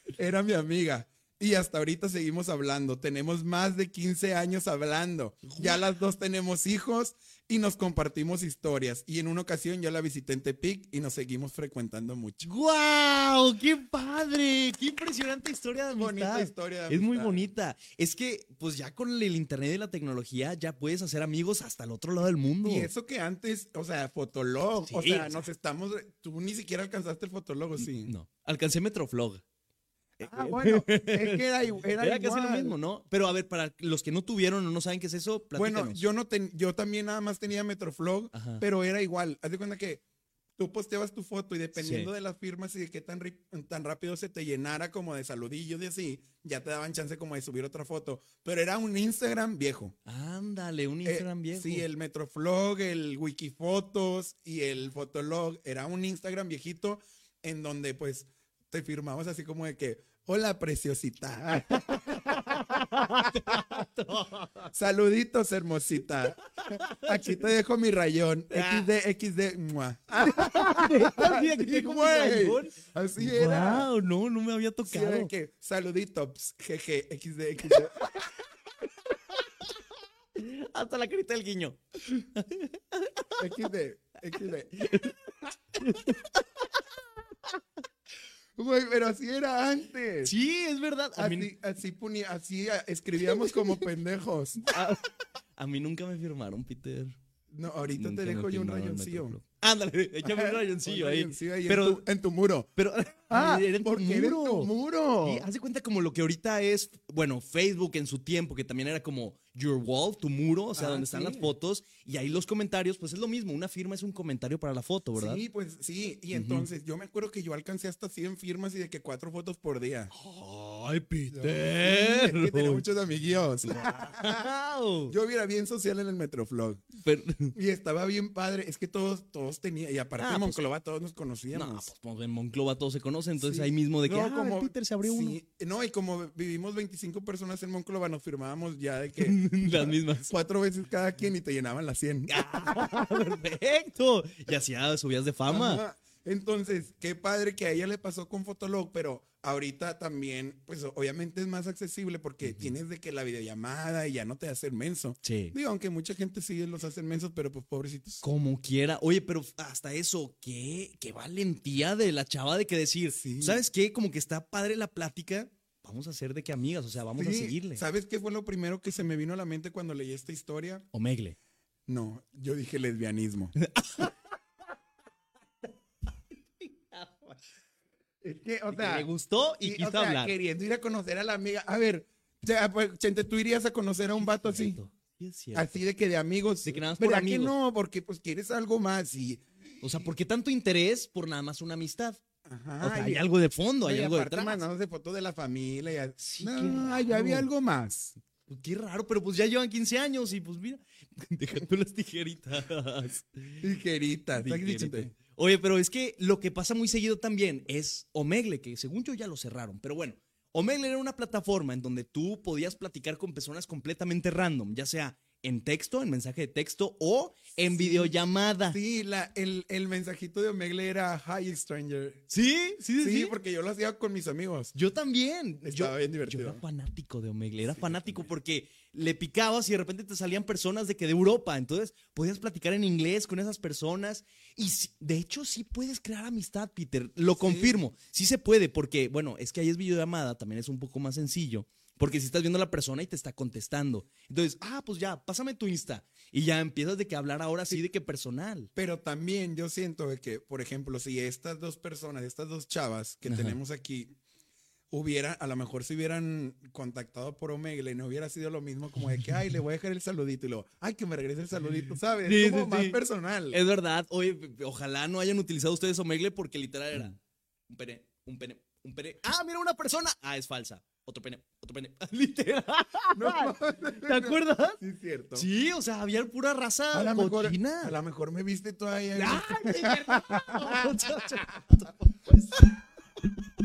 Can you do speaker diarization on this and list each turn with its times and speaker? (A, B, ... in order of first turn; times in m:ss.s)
0:00.1-0:12.5 A
0:05.4-0:05.8 B
0:12.4-0:22.9 B
0:16.0-0:17.4 A
0:22.6-0:28.1 A
0:24.8-0:25.4 B
0:27.8-0:29.4 B
0:30.2-0:32.7 A
0:30.2-0:36.0 B
0:35.6-0:40.0 A
0:38.3-0:38.6 B
0:40.6-0:49.9 A
0:41.8-0:42.1 B
0:50.0-0:51.9 B
0:51.0-1:03.9 A
1:01.7-1:04.7 B
1:04.7-1:13.9 A
1:06.6-1:07.4 B
1:08.5-1:08.9 B
1:10.2-1:15.3 B
1:14.9-1:18.1 A
1:17.7-1:18.3 B
1:19.3-1:19.8 B
1:20.4-1:23.4 B
1:23.4-1:25.1 A
1:24.3-1:25.1 B
1:25.7-1:26.8 B
1:28.6-1:30.3 A
1:30.2-1:31.5 B
1:31.2-1:34.7 A
1:34.7-1:37.2 B
1:37.5-1:39.4 A
1:37.9-1:42.0 B
1:40.2-1:42.7 A
1:42.8-1:44.7 B
1:43.3-1:45.5 A
1:45.2-1:55.4 B
1:50.8-1:51.5 A
1:55.2-2:00.1 A
1:56.3-1:56.7 B
2:00.1-2:02.8 B
2:01.3-2:04.5 A
2:03.6-2:05.1 B
2:05.1-2:06.8 A
2:07.0-2:07.5 B
2:07.5-2:11.9 A
2:10.2-2:10.6 B
2:11.5-2:15.4 B
2:13.4-2:23.3 A
2:19.2-2:20.3 B
2:22.3-2:25.8 B
2:25.5-2:38.2 A
2:32.4-2:32.7 B
2:35.2-2:35.5 B
2:38.2-2:47.8 B
2:43.1-2:43.6 A
2:47.2-2:50.9 A
2:50.9-2:51.4 B
2:51.9-2:53.5 A
2:53.6-2:54.2 B
2:56.6-2:57.4 B
2:58.2-2:59.1 A
2:58.7-3:00.3 B
2:59.6-3:04.8 A
3:04.2-3:05.8 B
3:05.5-3:09.4 A
3:06.6-3:07.5 B
3:09.8-3:12.2 B
3:12.4-3:13.2 A
3:12.8-3:14.6 B
3:13.8-3:18.2 A
3:16.2-3:17.5 B
3:18.5-3:23.6 B
3:23.6-3:25.1 A
3:24.4-3:38.8 B
3:37.6-3:38.1 A
3:38.7-3:42.3 A
3:42.3-3:43.4 B
3:43.0-3:44.7 A
3:44.7-4:08.7 B
3:45.6-3:46.6 A
3:47.7-3:48.3 A
3:57.3-3:57.8 A
4:08.8-4:14.1 A
4:13.2-4:13.6 B
4:14.9-4:23.6 A
4:22.2-4:23.0 B
4:23.5-4:27.2 B
4:27.7-4:34.8 B
4:33.1-4:35.5 A
4:35.3-4:38.0 B
4:36.9-4:41.8 A
4:39.2-4:42.8 B